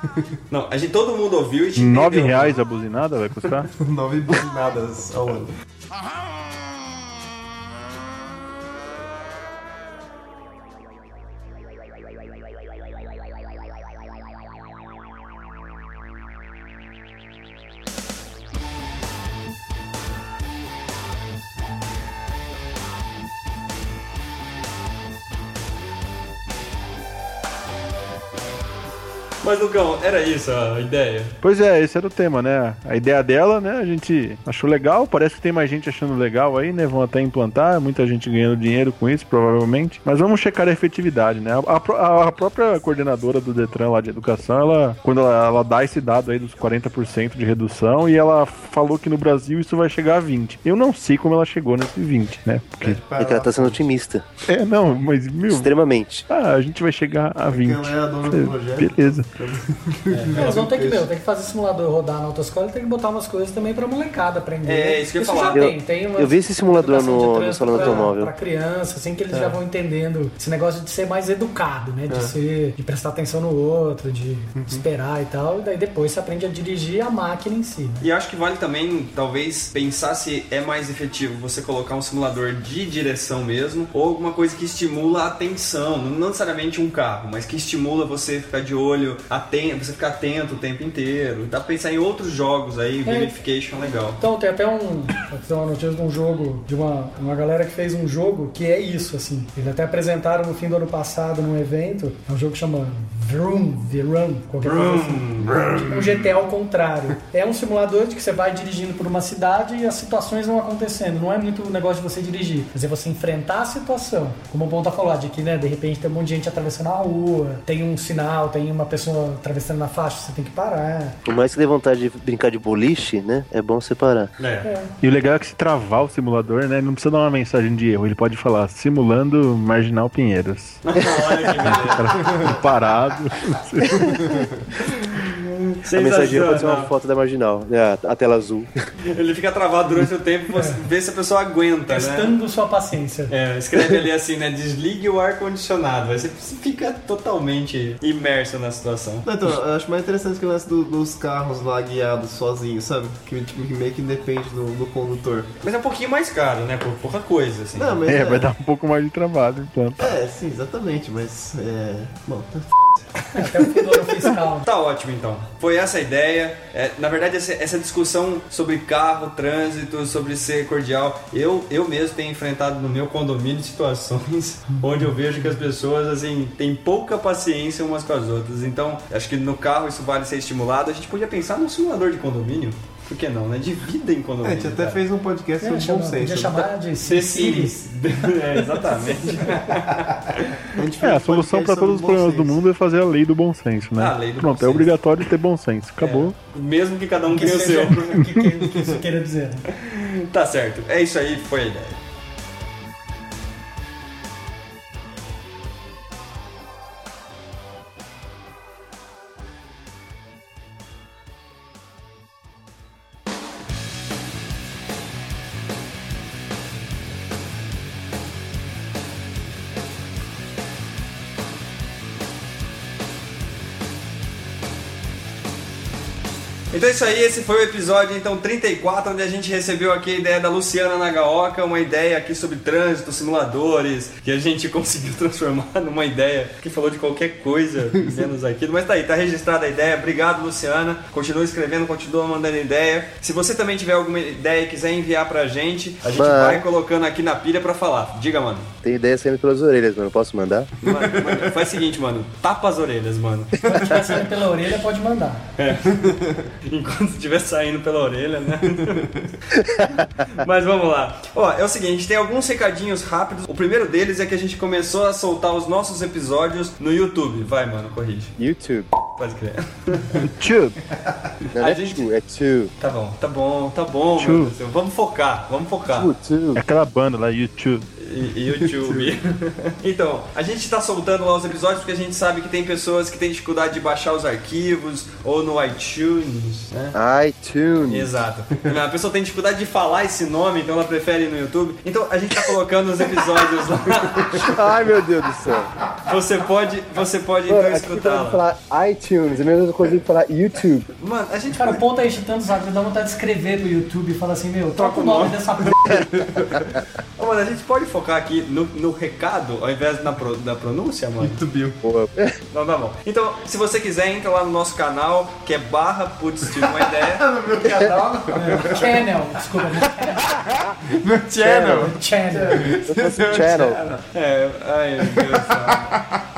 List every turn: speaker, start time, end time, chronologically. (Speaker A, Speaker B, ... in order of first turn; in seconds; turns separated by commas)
Speaker A: 0.5-2.5, Speaker B: 1.8-3.7, Speaker C: 3.7-5.5, Speaker A: 29.4-31.3, Speaker B: 31.4-53.0, Speaker C: 52.8-53.9, Speaker D: 53.1-54.2, Speaker B: 54.5-55.7, Speaker D: 55.5-56.2, Speaker B: 56.3-59.3, Speaker C: 57.5-61.1, Speaker A: 60.1-60.6, Speaker E: 60.3-78.0, Speaker A: 64.6-65.7, Speaker D: 65.5-68.3, Speaker C: 67.8-68.1, Speaker C: 69.3-69.6, Speaker C: 72.1-72.3, Speaker C: 74.5-74.8, Speaker A: 78.0-94.2, Speaker E: 93.0-93.3, Speaker E: 94.2-121.2, Speaker A: 104.6-105.9, Speaker D: 121.2-124.3, Speaker A: 124.4-124.7, Speaker E: 124.6-124.9, Speaker B: 125.0-130.8, Speaker A: 130.8-132.1, Speaker B: 131.7-134.3, Speaker A: 135.4-136.9, Speaker D: 135.9-138.7, Speaker A: 139.1-142.3, Speaker E: 140.5-140.8, Speaker E: 141.9-143.3, Speaker A: 143.3-149.2, Speaker C: 149.2-155.5, Speaker A: 155.6-158.1, Speaker C: 157.7-158.5, Speaker B: 158.1-160.2, Speaker C: 160.0-163.6, Speaker E: 163.3-164.7, Speaker A: 164.6-185.0, Speaker C: 184.4-186.7, Speaker E: 185.6-187.8, Speaker A: 187.0-190.7, Speaker E: 188.6-189.7, Speaker C: 190.7-192.6, Speaker B: 191.0-196.3, Speaker A: 194.0-194.9, Speaker A: 196.0-198.2, Speaker E: 197.3-199.7, Speaker C: 198.7-199.0, Speaker A: 199.7-202.0, Speaker A: 226.7-248.7, Speaker D: 246.1-246.6, Speaker D: 248.8-250.7, Speaker A: 250.8-253.6, Speaker C: 250.8-251.6, Speaker E: 253.6-255.4, Speaker A: 255.6-259.1, Speaker C: 255.9-256.2, Speaker C: 258.9-259.2, Speaker A: 259.6-268.3, Speaker D: 268.4-268.9, Speaker A: 269.1-270.2, Speaker B: 270.4-270.8, Speaker A: 271.5-272.0, Speaker D: 271.5-272.7, Speaker A: 272.8-276.1, Speaker B: 274.2-274.5, Speaker D: 275.9-276.6, Speaker B: 276.5-277.9, Speaker A: 278.0-287.0, Speaker D: 286.9-288.1, Speaker A: 287.9-294.5, Speaker D: 294.3-295.7, Speaker A: 296.1-298.4, Speaker D: 297.5-300.9, Speaker A: 301.0-301.8, Speaker E: 301.5-305.9, Speaker A: 304.8-305.7, Speaker C: 305.8-306.8, Speaker A: 307.2-311.4, Speaker C: 311.2-311.8, Speaker D: 311.8-312.4, Speaker A: 312.5-317.3, Speaker C: 316.6-319.0, Speaker E: 318.3-320.2, Speaker C: 320.4-324.0, Speaker D: 321.4-321.9, Speaker E: 321.4-322.6, Speaker D: 322.8-323.8, Speaker A: 324.1-325.9, Speaker C: 325.0-326.0